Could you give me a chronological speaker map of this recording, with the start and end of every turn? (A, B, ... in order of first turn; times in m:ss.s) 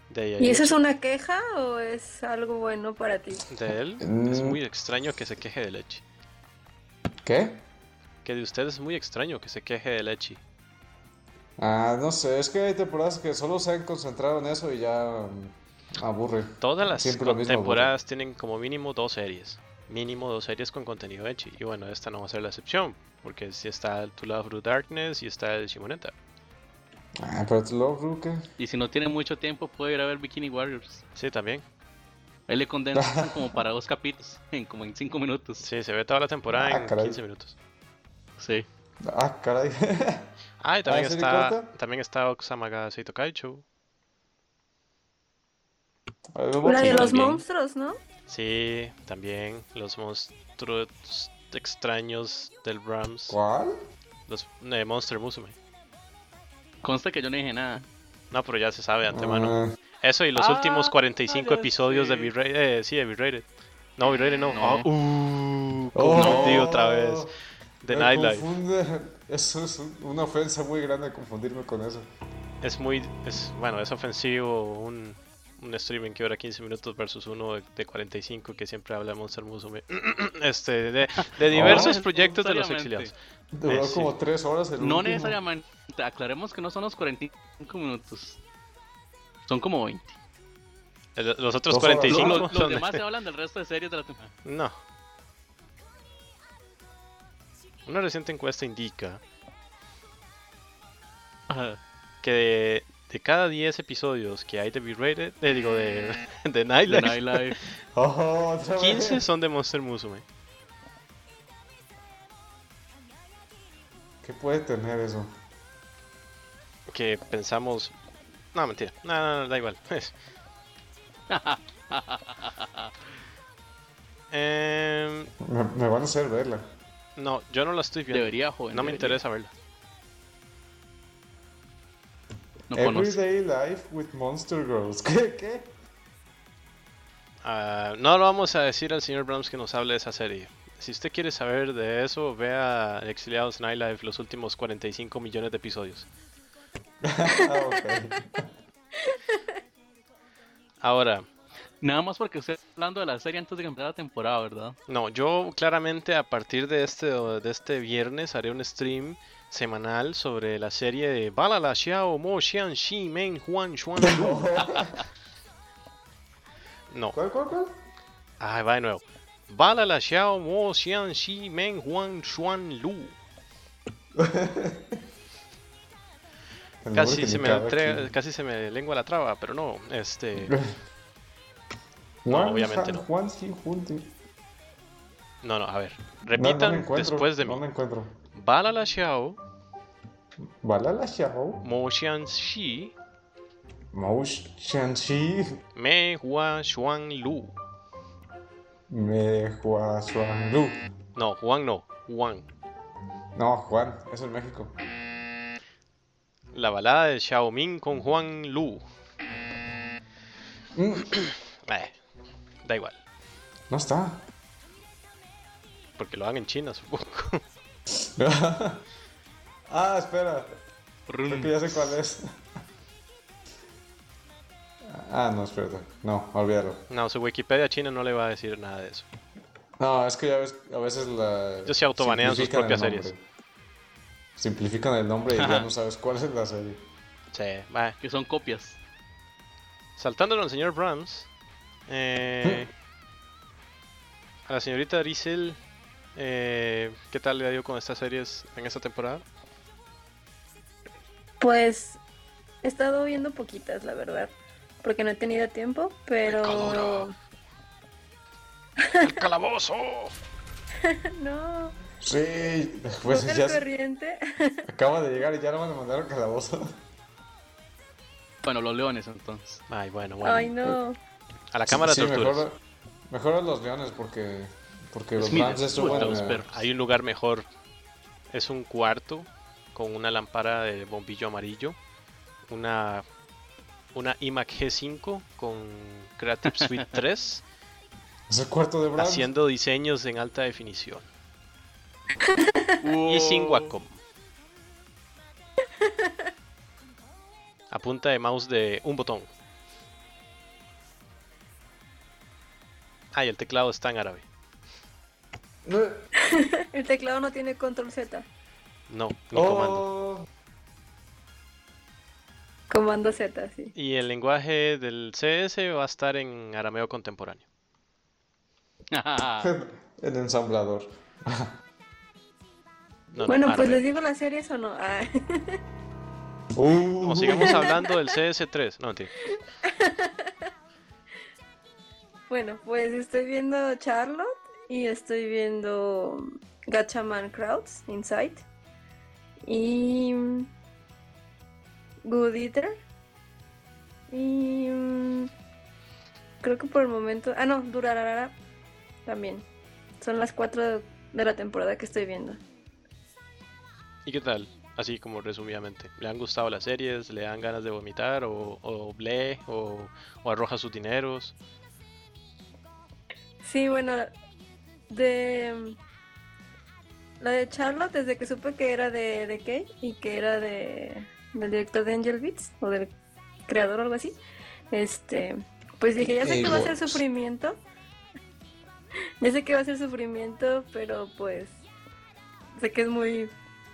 0:00.1-0:00.8 A
0:00.4-0:03.4 B
0:03.5-0:06.0 A
0:04.0-0:04.6 C
0:07.2-0:07.6 C
0:08.2-0:10.4 A
0:11.6-0:17.9 C
0:16.6-0:26.1 A
0:27.2-0:28.4 C
0:28.6-0:31.0 D
0:31.2-0:31.6 A
0:32.5-0:35.6 D
0:32.9-0:33.5 C
0:35.6-0:37.5 A
0:36.5-0:37.2 C
0:38.4-0:38.7 D
0:39.0-0:40.3 C
0:40.6-0:43.6 A
0:40.8-0:41.7 C
0:46.3-0:47.4 C
0:46.6-0:48.0 B
0:46.8-0:47.2 A
0:48.3-0:53.4 A
0:53.3-0:53.7 C
0:54.3-0:55.6 A
0:56.8-0:57.8 D
0:58.3-1:08.5 A
0:59.1-0:59.7 C
1:00.3-1:02.3 D
1:04.5-1:04.9 D
1:05.9-1:07.3 C
1:06.1-1:06.7 D
1:07.9-1:12.1 C
1:12.6-1:23.1 A
1:21.2-1:23.1 D
1:21.5-1:22.0 C
1:23.5-1:25.4 C
1:23.7-1:24.1 A
1:24.8-1:28.4 D
1:29.5-1:30.2 D
1:31.2-1:33.0 A
1:31.7-1:32.5 C
1:32.1-1:34.3 D
1:34.4-1:34.7 A
1:37.8-1:39.2 A
1:41.5-1:41.8 D
1:42.2-1:47.6 A
1:46.9-1:47.6 D
1:47.9-1:49.2 C
1:48.8-1:50.2 A
1:54.2-1:55.3 C
1:56.9-1:58.0 A
1:58.5-2:00.1 A
2:01.3-2:02.9 D
2:04.3-2:05.3 A
2:05.4-2:06.6 C
2:07.2-2:09.5 A
2:08.1-2:09.2 D
2:12.7-2:13.2 D
2:12.7-2:15.7 C
2:17.4-2:26.1 A
2:27.0-2:28.4 C
2:29.0-2:29.4 B
2:30.8-2:31.3 A
2:31.8-2:34.8 D
2:34.9-2:44.5 A
2:44.0-2:45.0 C
2:46.9-2:47.2 A
2:47.1-2:47.7 C
2:48.4-2:53.2 A
2:54.2-2:55.0 C
2:56.8-2:58.1 C
2:56.9-3:00.6 A
3:02.2-3:04.1 C
3:02.3-3:03.0 A
3:05.4-3:07.6 A
3:06.3-3:08.1 C
3:08.3-3:09.4 A
3:10.6-3:11.6 C
3:11.6-3:12.9 A
3:13.9-3:15.6 C
3:15.7-3:17.6 A
3:18.9-3:20.8 C
3:21.1-3:22.5 A
3:23.4-3:24.7 C
3:26.5-3:28.8 A
3:30.7-3:31.1 C
3:31.1-3:32.0 A
3:32.6-3:33.0 A
3:33.7-3:34.2 C
3:36.0-3:37.4 A
3:37.9-3:38.8 C
3:39.7-3:40.6 C
3:41.1-3:41.9 D
3:41.3-3:42.3 C
3:44.8-3:46.8 C
3:46.9-3:49.1 A
3:49.8-3:53.2 C
3:51.7-3:53.1 A
3:54.4-3:56.8 C
3:55.4-3:55.7 D
3:57.3-3:58.0 A
3:58.0-3:58.8 D
4:00.0-4:01.3 A
4:01.9-4:02.7 A
4:04.4-4:05.6 A
4:06.1-4:09.2 A
4:11.4-4:12.0 B
4:12.6-4:17.1 B
4:16.2-4:17.1 A
4:18.8-4:19.1 B
4:19.0-4:20.1 A
4:20.8-4:21.8 B
4:22.0-4:23.6 C
4:23.0-4:24.6 B
4:24.7-4:26.8 C
4:28.4-4:29.6 D
4:29.7-4:30.5 A
4:30.2-4:31.0 B
4:31.5-4:32.4 A
4:31.7-4:36.4 C
4:35.2-4:36.5 D
4:35.7-4:37.5 A
4:38.3-4:41.8 A
4:42.4-4:43.0 A
4:43.9-4:47.4 A
4:48.3-4:49.3 C
4:49.0-4:51.1 A
4:52.4-4:52.8 B
4:52.8-4:53.7 D
4:53.0-4:53.9 A
4:57.7-4:59.3 A
5:03.1-5:04.3 A
5:05.6-5:06.0 C
5:06.2-5:08.2 B
5:08.9-5:09.8 A
5:09.3-5:10.2 C
5:12.7-5:13.7 B
5:13.7-5:17.4 A
5:18.9-5:19.5 D
5:19.4-5:21.5 C
5:23.1-5:23.8 A
5:23.3-5:25.6 B
5:26.5-5:27.7 C
5:27.0-5:29.1 A
5:27.4-5:27.7 B
5:29.6-5:30.3 B
5:32.3-5:38.4 B
5:39.4-5:40.5 B
5:42.0-5:42.7 B
5:44.1-5:45.3 B
5:46.4-5:48.4 B
5:49.0-5:49.4 B
5:50.0-5:52.4 B
5:54.0-6:01.3 A
6:03.4-6:04.1 B
6:04.9-6:05.8 B
6:07.2-6:12.9 B
6:13.5-6:14.2 B
6:14.7-6:17.6 B
6:16.2-6:17.0 C
6:19.2-6:21.6 B
6:22.6-6:23.3 B